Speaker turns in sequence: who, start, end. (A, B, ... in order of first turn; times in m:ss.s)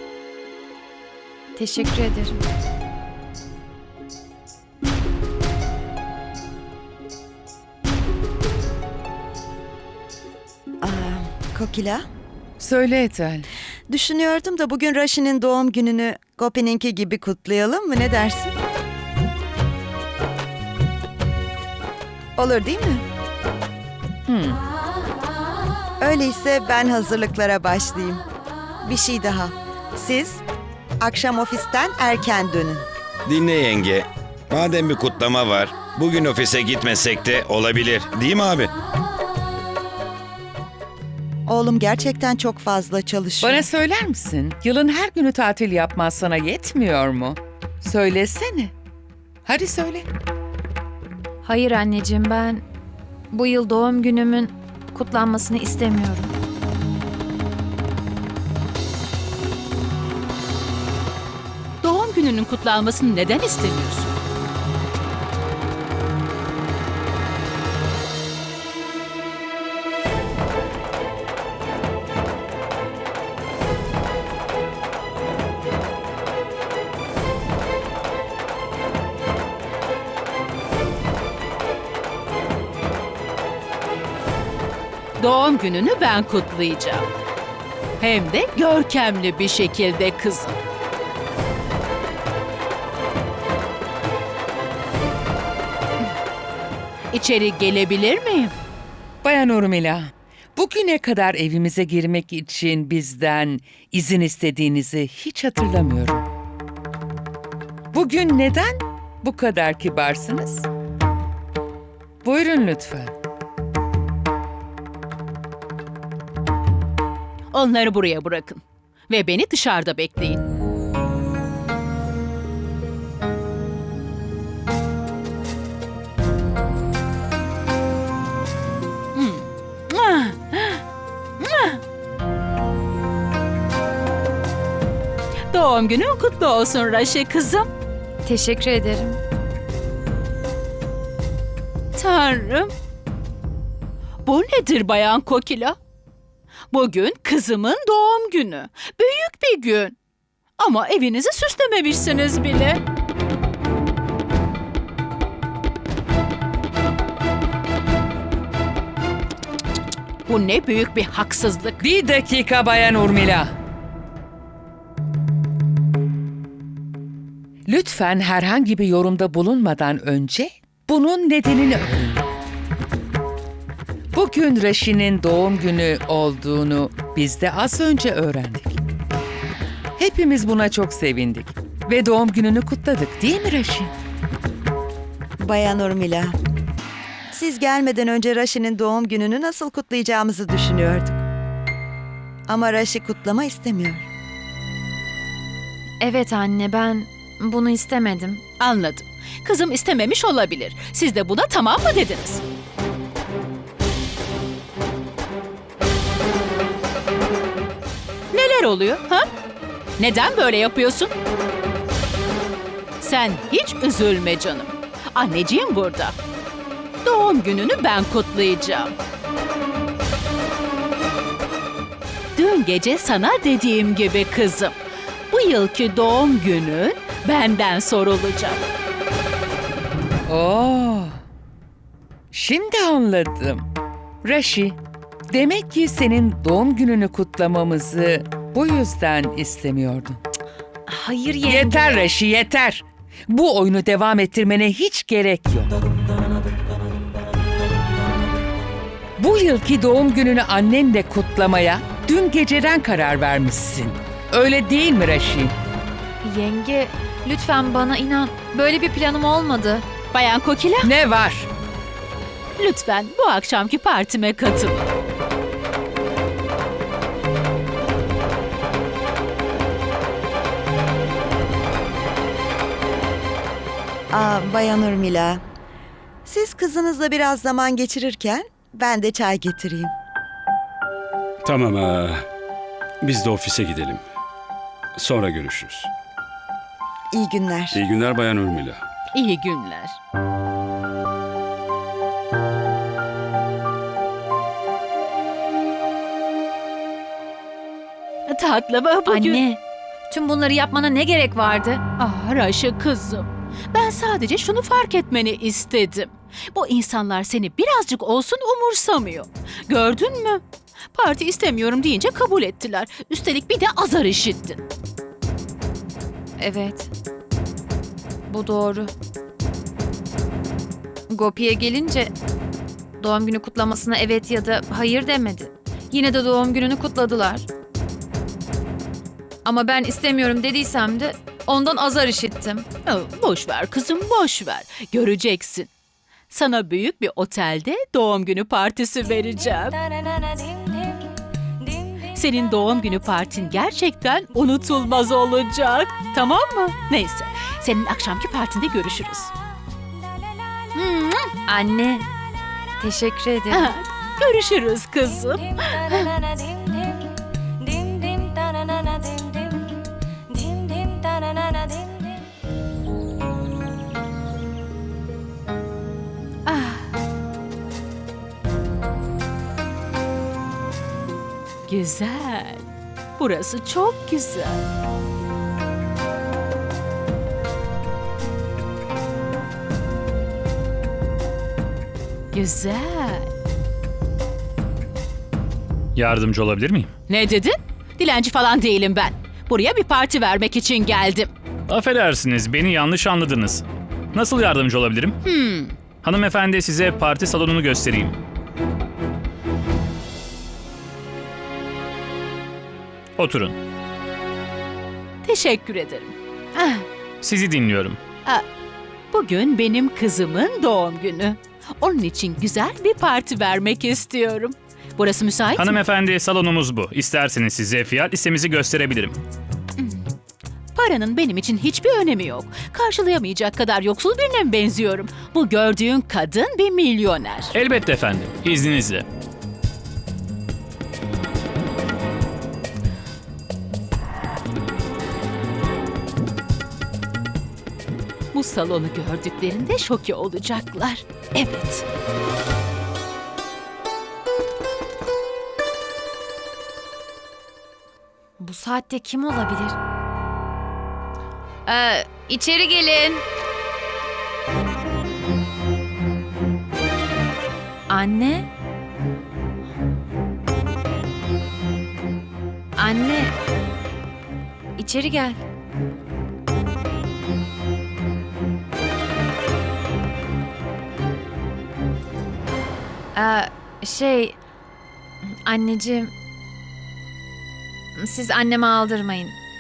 0:01.6-0:02.4 A
0:10.8-0:12.0 B
0:12.6-0:13.5 C
0:13.9-0:18.6 B
0:22.4-0:23.0 B
0:24.3-0:24.6 C
0:26.0-0:28.2 B
0:28.8-0:30.4 B
0:31.0-0:32.8 B
0:33.2-0:38.7 D
0:41.5-0:43.7 B
0:43.4-0:48.7 C
0:49.4-0:50.0 C
0:51.4-0:52.6 A
0:53.3-0:56.3 A
1:01.8-1:04.1 E
1:25.2-1:27.1 E
1:28.0-1:30.6 E
1:37.1-1:38.5 E
1:39.2-1:46.2 C
1:47.9-1:50.7 C
1:52.2-1:53.1 C
1:57.5-2:00.4 E
2:09.2-2:10.8 E
2:11.4-2:11.8 E
2:15.5-2:17.7 E
2:18.2-2:19.2 A
2:22.0-2:22.7 E
2:24.3-2:25.8 E
2:26.7-2:30.0 E
2:30.6-2:32.8 E
2:40.3-2:41.8 E
2:41.8-2:43.5 C
2:47.7-2:52.3 C
2:54.1-2:58.8 C
3:00.0-3:03.9 C
3:05.4-3:06.4 B
3:07.3-3:11.2 B
3:12.5-3:14.1 B
3:16.0-3:18.4 A
3:18.6-3:22.4 E
3:28.3-3:29.3 E
3:30.0-3:31.1 E
3:33.0-3:36.2 E
3:37.0-3:38.9 E
3:42.4-3:44.8 E
3:45.3-3:48.7 E
3:50.3-3:51.2 C
3:52.3-3:53.7 C
3:54.2-3:54.8 C
3:55.3-4:00.2 C
4:00.9-4:02.1 A
4:01.4-4:05.7 C
4:09.2-4:15.6 C
4:16.2-4:19.8 A
4:20.1-4:20.9 E
4:20.8-4:21.5 C
4:22.6-4:24.9 E
4:34.1-4:35.4 B
4:36.2-4:39.9 B
4:41.4-4:42.2 F
4:43.0-4:44.0 F
4:45.0-4:45.9 F
4:47.1-4:47.8 B
4:47.7-4:48.8 F
4:49.1-4:50.0 E
4:58.3-4:59.4 E
4:59.1-5:01.8 A
5:02.0-5:10.4 E
5:10.9-5:14.6 E
5:16.4-5:16.9 A
5:18.3-5:18.9 A
5:21.1-5:22.1 A
5:23.0-5:27.4 A
5:29.4-5:32.6 A
5:32.8-5:35.7 E
5:36.3-5:39.8 E
5:42.1-5:49.3 E
5:50.8-5:51.3 E
5:51.5-5:52.1 A
5:52.8-5:53.7 A
5:53.5-5:56.1 E
6:06.4-6:06.9 E
6:11.7-6:12.6 E
6:13.2-6:14.6 E
6:22.3-6:23.3 E
6:25.9-6:26.9 G
6:27.1-6:31.3 E
6:31.7-6:35.2 G
6:35.2-6:35.8 E
6:36.0-6:38.2 G
6:43.2-6:43.6 G
6:45.2-6:46.8 E
6:47.2-6:48.0 G
6:49.1-6:55.8 E
6:55.6-6:59.2 G
6:59.8-7:00.0 E
7:00.8-7:07.5 E
7:07.5-7:09.1 G
7:18.3-7:21.8 E
7:28.4-7:29.8 A
7:31.6-7:33.2 A
7:37.9-7:38.5 A
7:42.8-7:43.3 A
7:44.8-7:45.4 A
7:53.1-7:54.4 A
7:55.4-7:56.1 A
7:58.0-7:59.4 A